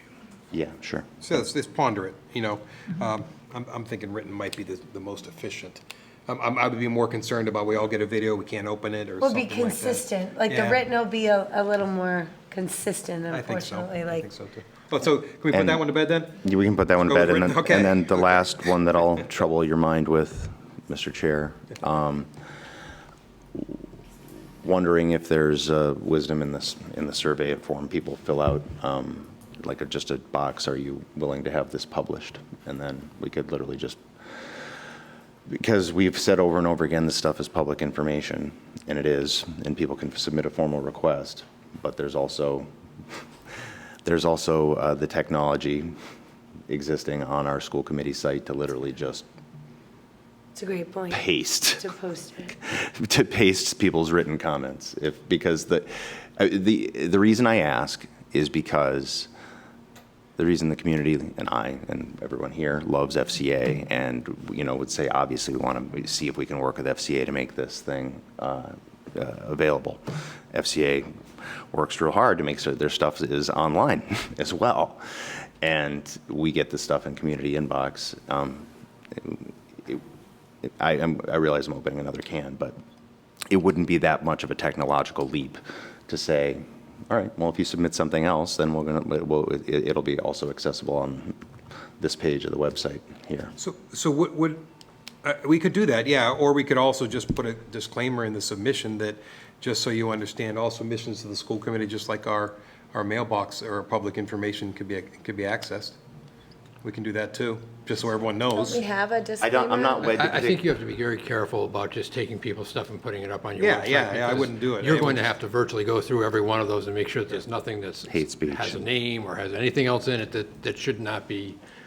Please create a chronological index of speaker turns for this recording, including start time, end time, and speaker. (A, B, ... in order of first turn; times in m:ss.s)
0:00.5-0:01.1 A
0:01.2-0:10.8 B
0:09.2-0:14.3 C
0:13.3-0:16.4 B
0:15.5-0:15.8 A
0:16.4-0:22.3 A
0:17.0-0:18.4 B
0:24.6-0:34.5 A
0:35.5-0:42.7 A
0:44.0-0:45.9 A
0:46.7-0:49.2 A
0:50.6-0:52.5 C
0:51.1-0:51.9 A
0:52.6-0:59.3 A
1:00.4-1:11.1 A
1:11.7-1:20.0 A
1:20.6-1:22.8 A
1:23.5-1:31.4 A
1:32.0-1:33.5 A
1:33.6-1:34.6 B
1:35.2-1:46.0 B
1:46.8-1:48.8 B
1:48.5-1:50.2 C
1:49.4-1:50.7 A
1:50.1-2:01.6 D
1:53.6-1:55.3 B
1:58.1-1:58.8 A